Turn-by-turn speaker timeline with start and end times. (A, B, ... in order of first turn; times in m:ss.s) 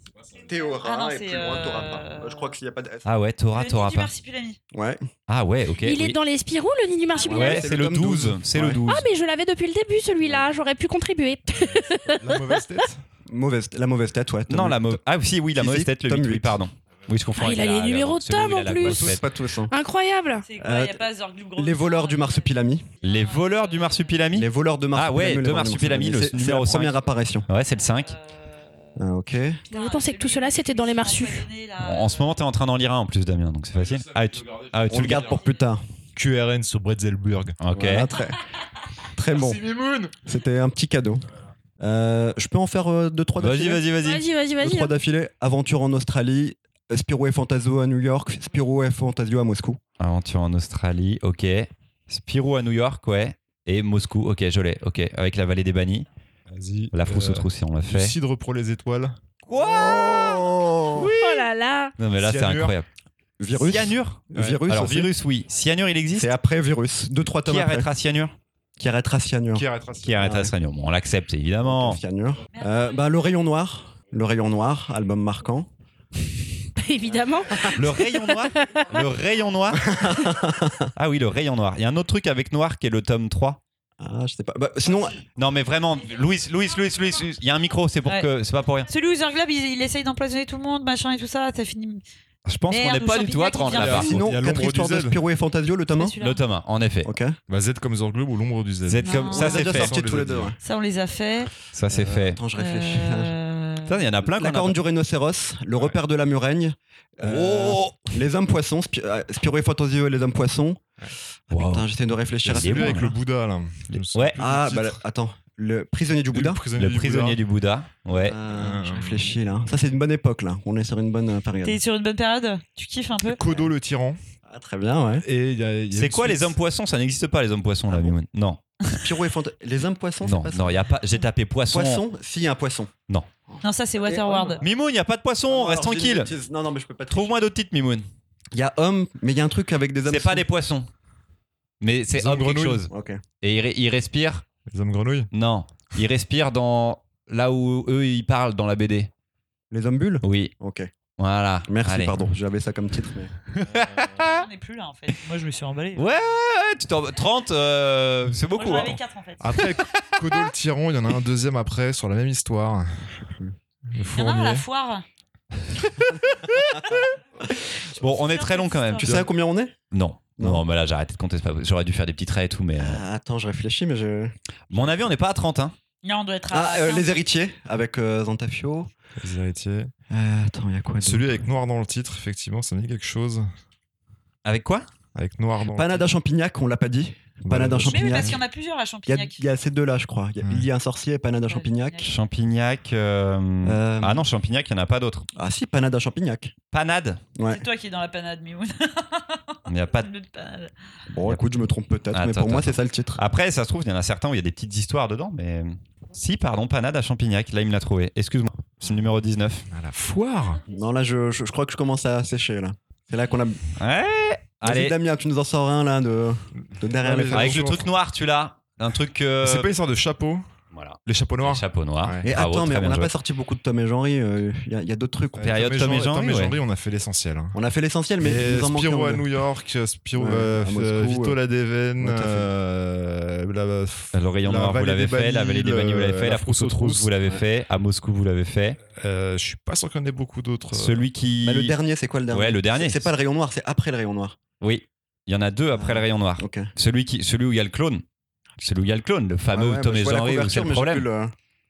0:00.4-0:03.1 A
0:00.6-0:02.5 B
0:03.0-0:04.1 C
0:03.5-0:04.6 B
0:04.7-0:05.0 A
0:05.3-0:06.2 C
0:05.8-0:07.6 D
0:07.1-0:07.5 B
0:07.2-0:08.8 A
0:07.3-0:09.1 C
0:08.8-0:12.6 D
0:12.1-0:13.0 E
0:13.3-0:15.0 A
0:14.5-0:19.2 C
0:15.5-0:16.6 A
0:17.4-0:19.2 D
0:18.8-0:19.7 A
0:19.7-0:20.4 D
0:20.4-0:24.2 B
0:20.6-0:21.0 A
0:21.6-0:22.8 A
0:23.0-0:28.1 C
0:24.3-0:27.5 A
0:27.7-0:29.0 B
0:29.0-0:29.6 A
0:29.7-0:32.3 B
0:29.7-0:31.5 D
0:31.8-0:35.4 C
0:34.9-0:35.8 A
0:35.3-0:35.6 B
0:36.2-0:37.6 E
0:37.6-0:38.1 C
0:37.7-0:38.4 A
0:39.1-0:41.2 A
0:39.3-0:40.2 E
0:41.8-0:43.8 A
0:43.4-0:44.2 C
0:44.0-0:44.9 D
0:44.6-0:49.8 A
0:50.0-0:56.0 C
0:56.5-0:59.2 E
0:56.9-0:58.1 C
0:59.5-1:01.5 C
0:59.5-1:01.1 A
1:01.0-1:01.9 D
1:02.0-1:02.8 C
1:02.2-1:02.8 E
1:03.4-1:05.1 A
1:03.5-1:06.3 C
1:06.1-1:07.9 A
1:07.4-1:08.3 C
1:08.8-1:09.6 A
1:09.5-1:10.3 E
1:10.0-1:12.0 C
1:10.2-1:10.5 A
1:11.6-1:16.3 A
1:12.5-1:13.2 B
1:16.8-1:18.9 D
1:17.6-1:20.2 C
1:19.7-1:20.9 A
1:20.9-1:23.6 C
1:24.0-1:25.2 A
1:25.3-1:28.9 C
1:28.9-1:32.0 B
1:32.4-1:34.2 C
1:32.7-1:34.2 B
1:33.7-1:35.2 E
1:33.8-1:36.1 A
1:36.0-1:36.4 B
1:36.2-1:37.1 C
1:37.0-1:37.4 A
1:37.5-1:40.6 E
1:38.8-1:39.9 C
1:39.0-1:39.6 B
1:39.3-1:40.6 A
1:40.6-1:41.5 B
1:41.7-1:42.4 C
1:41.9-1:43.3 A
1:42.6-1:44.0 B
1:43.8-1:44.8 C
1:44.2-1:50.8 A
1:47.2-1:48.1 C
1:51.5-1:53.1 A
1:51.5-1:51.9 C
1:52.4-1:55.0 E
1:52.4-1:53.1 C
1:53.9-1:54.4 C
1:54.4-1:56.6 A
1:56.3-1:57.4 E
1:56.8-1:58.4 C
1:58.2-2:01.8 A
1:58.5-1:59.3 E
2:01.6-2:03.6 B
2:03.2-2:04.2 E
2:04.4-2:05.2 A
2:05.2-2:06.6 E
2:05.9-2:08.6 C
2:07.9-2:08.2 A
2:09.0-2:10.9 A
2:10.2-2:12.0 C
2:11.7-2:12.9 A
2:13.5-2:14.6 A
2:13.6-2:14.6 B
2:14.6-2:16.3 C
2:15.5-2:17.4 A
2:17.1-2:18.1 C
2:18.5-2:20.4 A
2:20.0-2:20.9 C
2:21.8-2:22.9 C
2:22.1-2:22.8 E
2:22.9-2:23.2 A
2:23.4-2:24.5 C
2:24.7-2:25.3 E
2:25.3-2:29.1 C
2:29.7-2:30.9 A
2:30.2-2:30.5 C
2:31.2-2:32.2 C
2:31.6-2:33.3 A
2:33.5-2:34.4 C
2:33.7-2:34.0 E
2:34.2-2:36.1 B
2:36.0-2:39.0 C
2:38.5-2:39.7 B
2:39.4-2:43.1 E
2:39.8-2:40.0 C
2:43.9-2:44.6 E
2:44.0-2:45.0 B
2:47.9-2:49.2 C
2:48.0-2:49.2 B
2:49.0-2:49.7 A
2:49.9-2:53.0 C
2:50.4-2:50.6 A
2:52.8-2:55.1 A
2:54.7-2:55.7 C
2:56.0-2:57.2 B
2:56.5-2:58.9 A
2:59.2-2:59.9 E
3:00.1-3:01.4 A
3:01.0-3:03.5 E
3:04.4-3:04.8 C
3:05.1-3:06.0 E
3:05.7-3:08.4 A
3:07.4-3:08.4 E
3:07.8-3:09.4 B
3:09.1-3:12.1 A
3:11.5-3:12.1 B
3:12.0-3:15.2 C
3:13.6-3:14.3 A
3:15.4-3:16.5 A
3:16.7-3:17.2 C
3:17.4-3:17.6 A
3:17.5-3:20.7 B
3:19.7-3:20.1 C
3:21.1-3:23.2 A
3:22.1-3:29.7 C
3:29.7-3:30.6 E
3:30.6-3:33.6 A
3:33.8-3:34.9 C
3:34.6-3:37.7 A
3:36.9-3:37.9 E
3:37.3-3:39.7 C
3:39.4-3:40.4 E
3:40.7-3:43.1 C
3:41.0-3:42.3 E
3:42.2-3:45.5 A
3:45.4-3:47.6 E
3:45.4-3:46.5 C
3:47.5-3:49.3 A
3:48.2-3:57.1 E
3:50.2-3:51.4 A
3:52.0-3:52.5 A
3:54.1-3:58.8 C
3:58.9-4:01.1 E
4:00.7-4:01.7 C
4:01.4-4:04.4 A
4:02.3-4:03.1 C
4:04.6-4:08.0 C
4:05.7-4:06.7 A
4:08.6-4:11.1 C
4:09.5-4:11.3 A